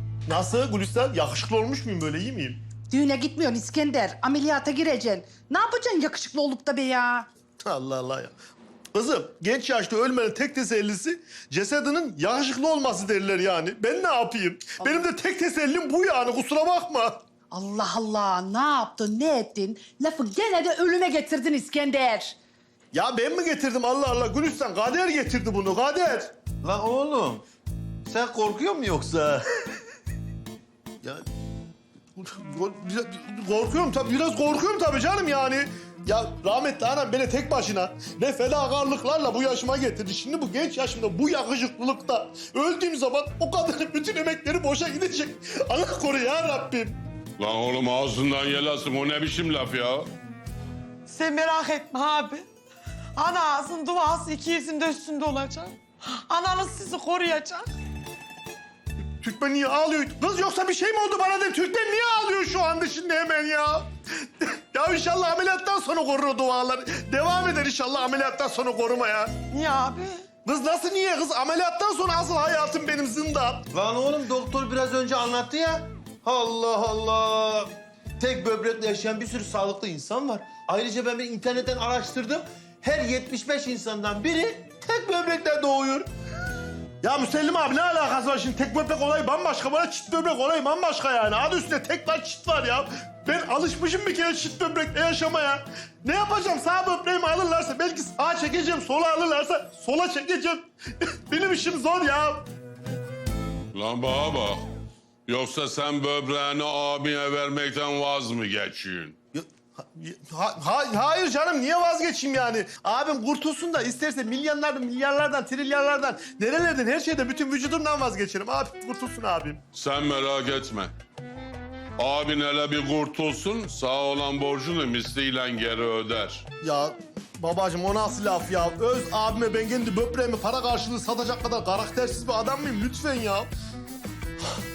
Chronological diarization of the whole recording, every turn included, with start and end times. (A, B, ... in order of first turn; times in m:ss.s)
0:00.3-0:02.6 A
0:02.9-0:07.3 B
0:07.6-0:08.4 A
0:08.9-0:17.2 A
0:14.8-0:15.0 B
0:17.5-0:22.4 B
0:22.9-0:26.3 A
0:26.6-0:27.4 C
0:28.1-0:29.4 C
0:32.2-0:47.0 A
0:47.4-0:50.1 D
0:51.1-0:52.5 E
0:53.2-0:57.7 E
0:59.2-1:09.4 A
1:09.5-1:10.2 E
1:10.4-1:13.7 A
1:13.7-1:26.1 C
1:27.0-1:42.4 A
1:43.7-1:44.6 D
1:45.3-1:49.2 D
1:49.3-1:59.6 A
1:59.7-2:00.9 D
2:02.0-2:06.4 D
2:06.6-2:13.5 A